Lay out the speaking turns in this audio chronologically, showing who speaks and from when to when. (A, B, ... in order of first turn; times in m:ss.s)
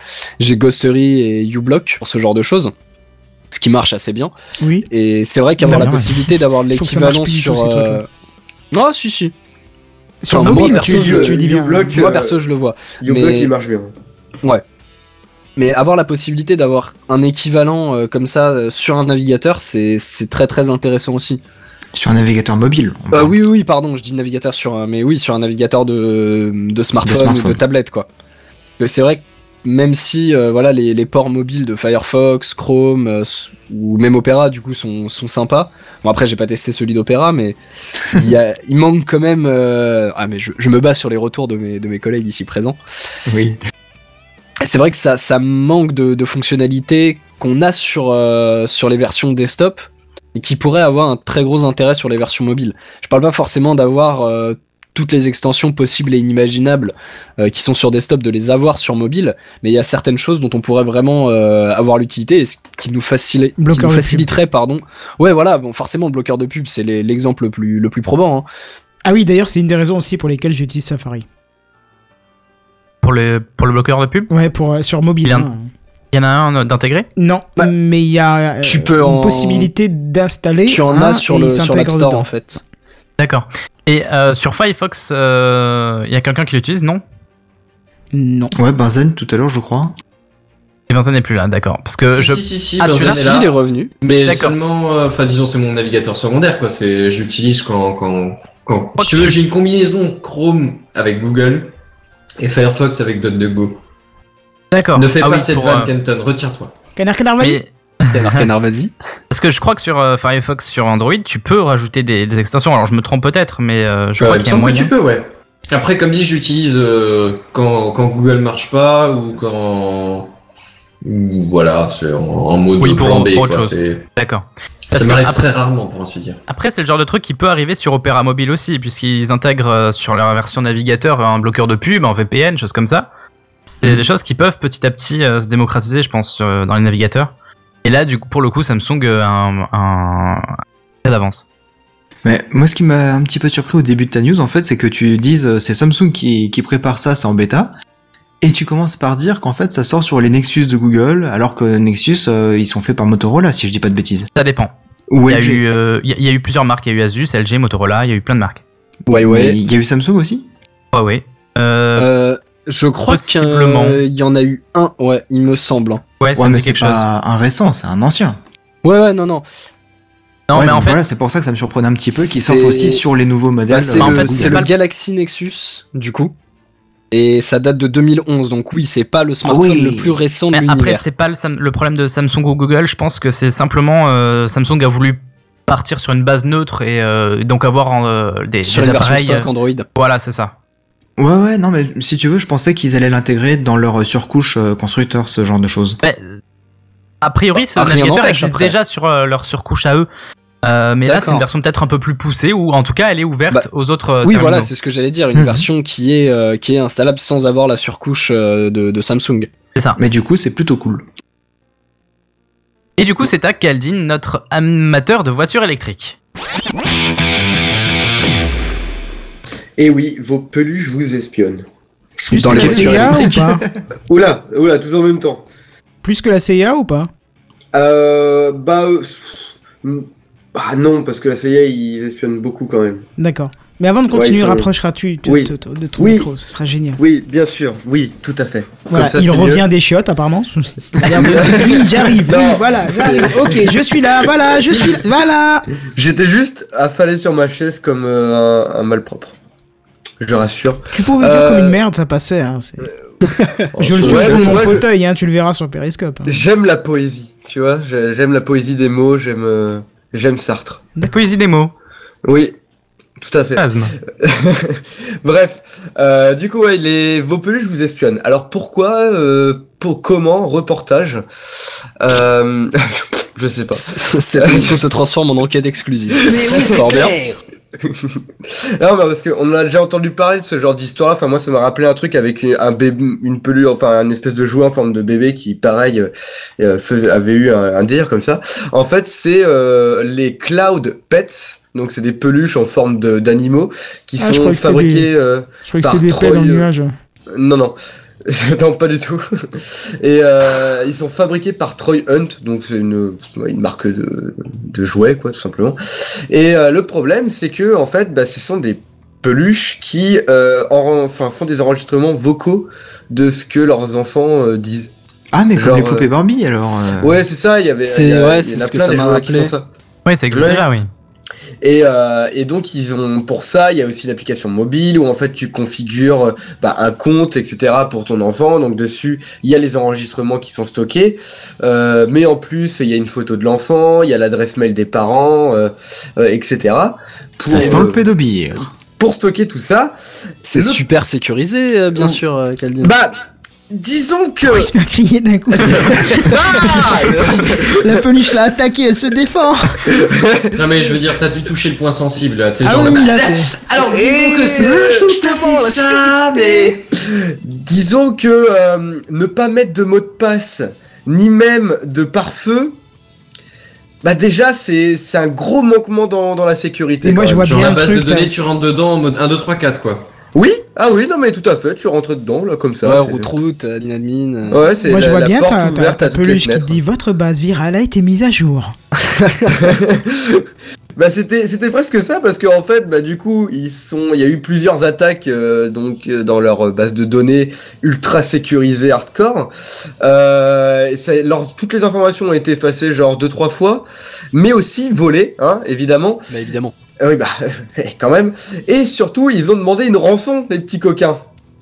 0:00.4-0:02.7 A
0:03.5-0:04.3 A
0:04.6-0:04.9 B
0:04.9-0:08.1 A
0:05.6-0:08.0 B
0:08.7-0:09.3 A
0:10.2-0:11.9 B
0:10.3-0:13.5 A
0:10.4-0:12.4 C
0:13.0-0:13.9 C
0:15.6-0:21.4 A
0:22.0-0:23.4 D
0:23.1-0:28.1 A
0:27.0-0:27.6 D
0:28.8-0:37.6 A
0:38.1-0:42.8 A
0:43.3-0:43.6 D
0:44.6-1:08.5 A
1:03.6-1:04.3 B
1:09.0-1:11.2 B
1:13.0-1:14.3 E
1:14.3-1:15.7 B
1:15.2-1:15.5 E
1:16.1-1:17.1 E
1:17.2-1:22.3 B
1:18.6-1:19.7 A
1:20.7-1:22.6 A
1:23.2-1:27.0 E
1:28.1-1:28.5 B
1:28.6-1:29.9 D
1:30.9-1:33.2 E
1:32.1-1:41.7 F
1:33.0-1:33.9 A
1:34.2-1:34.6 E
1:39.0-1:39.4 E
1:42.4-1:43.8 F
1:44.7-1:45.9 E
1:45.0-1:46.7 F
1:47.0-1:47.6 B
1:47.4-1:48.5 E
1:48.1-1:48.9 A
1:49.3-1:54.9 E
1:54.2-2:00.3 F
2:01.0-2:04.0 F
2:02.8-2:05.4 E
2:04.9-2:06.4 F
2:06.5-2:13.1 E
2:13.8-2:17.3 E
2:17.8-2:20.5 E
2:21.0-2:21.4 E
2:22.2-2:27.7 D
2:28.4-2:34.3 D
2:34.4-2:34.7 E
2:35.1-2:35.6 D
2:35.3-2:38.6 E
2:39.1-2:39.6 A
2:39.1-2:40.5 D
2:40.9-2:42.1 E
2:42.0-2:46.0 A
2:43.1-2:44.0 E
2:46.2-2:47.0 E
2:46.4-2:48.4 D
2:48.8-2:49.5 A
2:50.5-2:51.0 E
2:50.5-2:54.7 D
2:52.2-2:53.0 A
2:53.7-2:56.3 A
2:53.9-2:54.7 E
2:57.1-3:01.0 A
2:59.4-3:00.2 D
3:00.5-3:10.5 E
3:08.6-3:09.9 A
3:11.2-3:16.0 D
3:16.0-3:16.3 E
3:17.2-3:20.1 E
3:17.7-3:18.8 A
3:20.6-3:24.7 E
3:21.0-3:21.5 A
3:24.2-3:29.5 A
3:25.4-3:25.7 D
3:29.8-3:30.0 E
3:30.0-3:31.0 D
3:33.0-3:36.2 E
3:39.8-3:41.6 C
3:42.3-3:43.6 B
3:42.3-3:43.3 A
3:42.4-3:43.6 D
3:42.6-3:42.8 C
3:44.1-3:45.4 C
3:46.0-3:47.1 B
3:47.7-3:53.1 C
3:53.2-3:57.0 B
3:54.1-3:54.7 C
3:55.2-3:56.3 C
3:57.0-3:59.6 C
3:58.9-4:05.7 B
4:01.0-4:05.0 C
4:05.9-4:09.4 C
4:10.2-4:11.8 C
4:10.9-4:12.9 B
4:13.4-4:14.7 A
4:13.8-4:14.8 C
4:13.8-4:16.4 B
4:14.1-4:14.6 D
4:16.3-4:20.9 C
4:21.0-4:21.7 E
4:22.2-4:22.6 C
4:23.2-4:31.2 C
4:23.6-4:23.9 E
4:32.0-4:34.8 C
4:33.8-4:37.2 A
4:36.2-4:37.1 C
4:37.9-4:56.7 C
4:54.2-4:55.1 B
4:55.6-4:56.9 B
4:57.3-5:14.9 C
5:15.3-5:17.2 D
5:15.6-5:16.1 C
5:17.0-5:19.7 C
5:17.8-5:19.5 A
5:20.1-5:20.9 E
5:20.3-5:20.6 C
5:21.6-5:38.0 C
5:37.4-5:38.7 D
5:39.0-5:40.0 C
5:40.5-5:42.9 A
5:40.5-5:40.8 C
5:42.8-5:43.2 C
5:43.7-5:44.7 C
5:44.4-5:49.8 B
5:45.5-5:48.0 C
5:49.9-5:50.9 C
5:50.6-5:56.7 F
5:52.6-5:53.5 B
5:53.2-6:02.8 C
5:55.2-5:56.2 A
6:04.0-6:07.8 C
6:07.0-6:08.3 B
6:07.4-6:10.1 F
6:10.3-6:13.3 C
6:12.8-6:14.6 A
6:14.5-6:16.8 C
6:14.8-6:18.8 B
6:19.0-6:19.6 A
6:19.5-6:36.4 C
6:36.3-6:36.8 A
6:37.0-6:41.2 C